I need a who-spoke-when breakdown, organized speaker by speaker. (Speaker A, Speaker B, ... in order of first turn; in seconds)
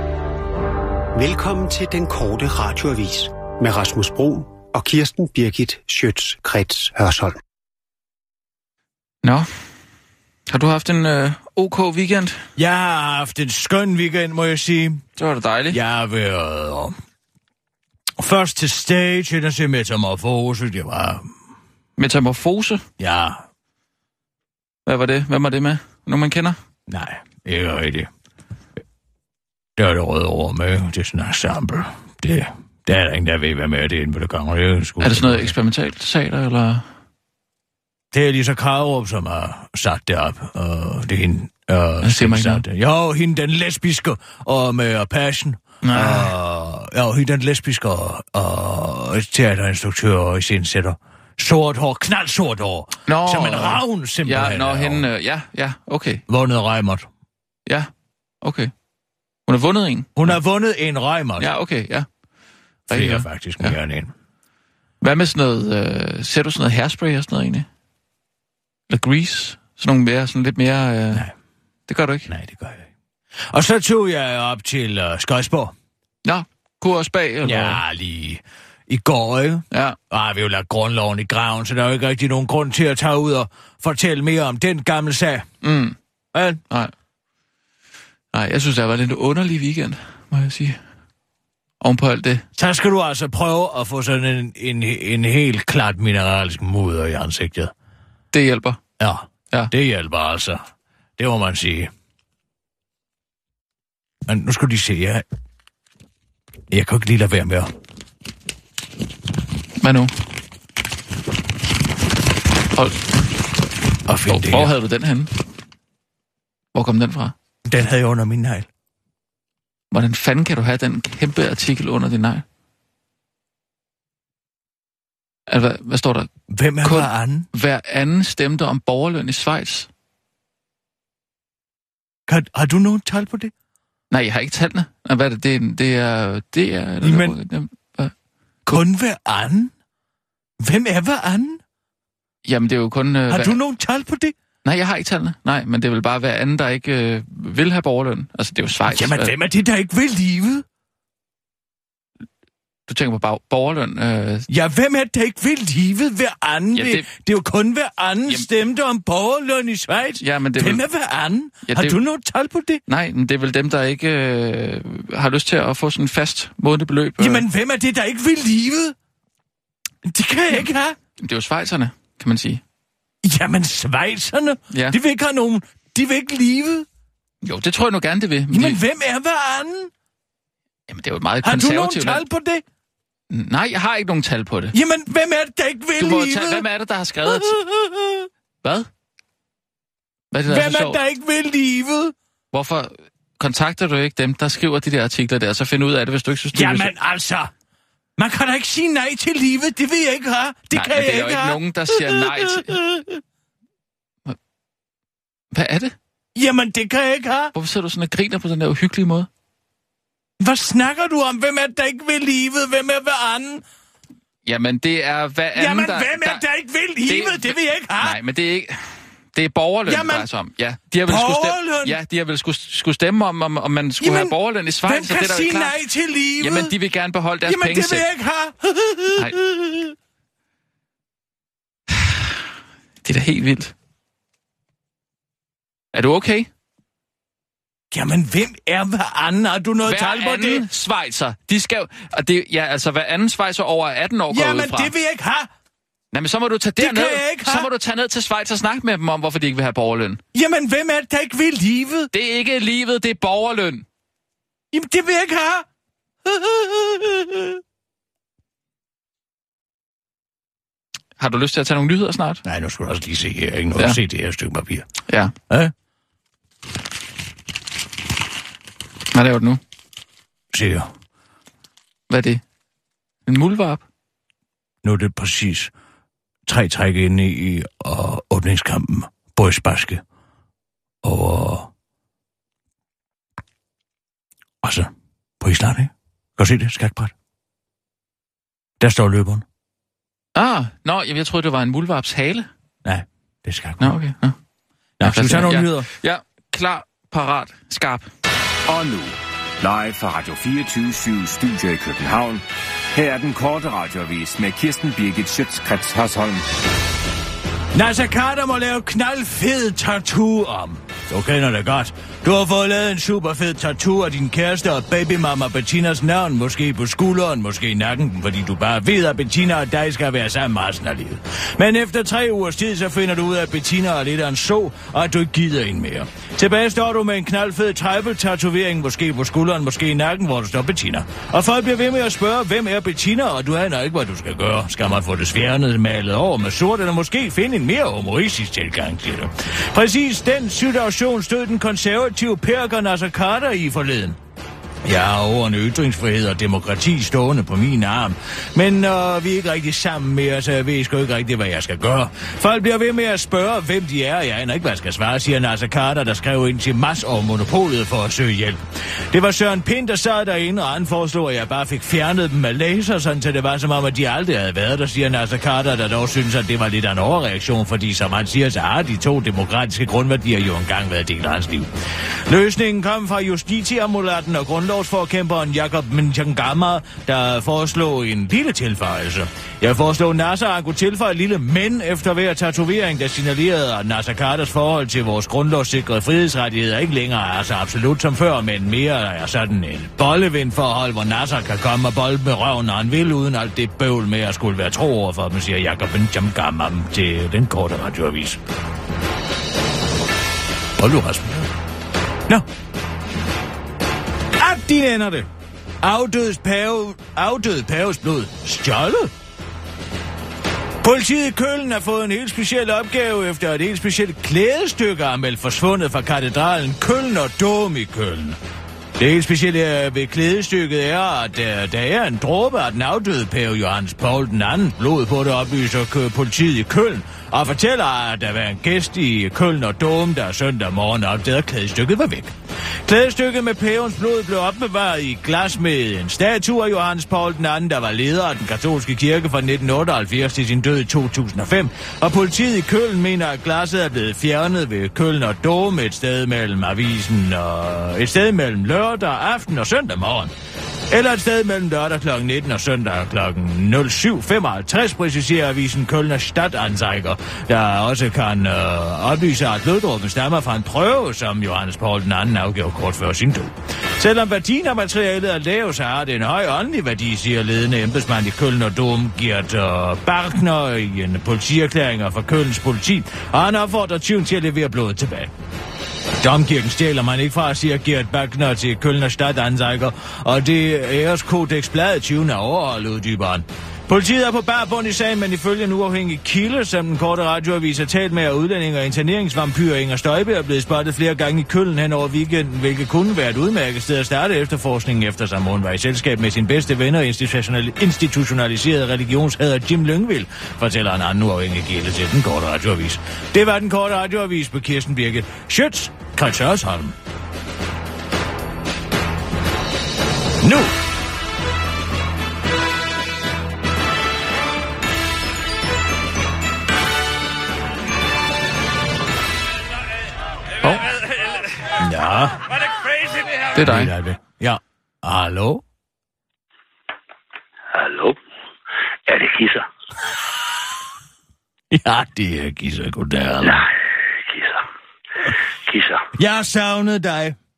Speaker A: 1.1-7.4
Speaker B: 9.2-9.5, 10.5-12.4, 15.2-15.8, 22.0-22.8, 24.9-26.6, 35.0-36.8, 42.0-42.6, 45.8-46.3, 53.1-56.2, 58.4-58.7, 59.5-60.4, 61.4-62.1, 62.9-63.7, 65.0-67.7, 68.9-71.2, 71.9-72.3, 76.2-77.8, 79.7-80.0, 85.6-86.0, 88.3-90.8, 91.8-92.4, 98.3-98.8, 109.8-110.1, 112.7-113.1, 114.3-115.3, 116.7-117.3, 119.9-122.4, 125.5-126.3, 126.8-129.9, 134.1-138.1, 142.4-143.6, 144.6-149.3, 152.9-154.5, 156.7-157.1, 160.2-160.8, 161.7-162.0, 162.9-167.4, 171.2-172.6, 174.7-175.0, 177.4-178.8, 180.9-182.2, 183.3-184.7, 186.0-187.6, 188.6-188.9, 190.3-191.0, 192.5-196.9, 200.7-202.8, 205.5-205.9, 207.5-209.3, 214.4-216.4, 217.1-225.7, 226.4-228.1, 231.9-232.3, 233.0-233.7, 235.9-236.5, 239.8-244.9, 246.1-250.2, 252.1-253.8, 261.2-262.4, 265.1-265.3, 269.1-269.6, 272.1-272.4, 273.2-273.8, 290.3-292.5, 293.8-294.4, 295.0-298.1, 523.5-523.9
Speaker C: 12.6-15.0, 15.7-16.9, 18.2-21.3, 23.0-23.4, 26.9-28.1, 29.8-35.5, 38.1-55.1, 56.3-57.1, 60.1-61.5, 62.9-64.1, 72.3-72.9, 73.5-75.7, 77.4-85.5, 86.3-86.6, 92.5-97.7, 99.0-100.6, 101.2-101.9, 104.3-105.2, 106.7-107.7, 114.0-114.7, 117.7-118.7, 126.5-127.5, 132.3-133.5, 137.0-137.3, 138.7-139.7, 140.6-141.6, 143.3-144.3, 148.8-150.6, 154.5-162.8, 167.2-168.9, 170.0-171.0, 173.2-176.9, 178.5-179.9, 181.4-182.6, 184.7-186.7, 187.2-188.3, 190.5-192.1, 196.5-197.5, 198.2-203.2, 206.3-207.5, 210.4-213.6, 215.5-218.2, 219.8-220.3, 221.0-222.0, 224.0-226.7, 227.4-229.9, 237.9-240.7, 244.3-245.5, 246.8-247.7, 250.3-252.1, 254.7-255.7, 256.2-257.6, 262.4-264.9, 270.5-270.9, 274.8-275.7, 276.5-280.0, 281.0-281.7, 284.6-287.1, 288.8-289.4, 292.8-293.9, 295.0-295.9, 307.7-344.2, 344.8-358.6, 359.1-371.7, 372.3-398.4, 400.8-401.5, 404.3-405.3, 405.8-409.1, 410.8-418.4, 419.0-432.3, 432.8-450.3, 450.9-475.3, 476.2-506.9, 510.4-510.7, 521.8-522.4, 523.5-525.6, 531.7-533.7, 536.1-537.4
Speaker D: 298.7-306.4
Speaker E: 527.7-528.2, 529.1-529.7, 533.4-534.6, 535.3-536.0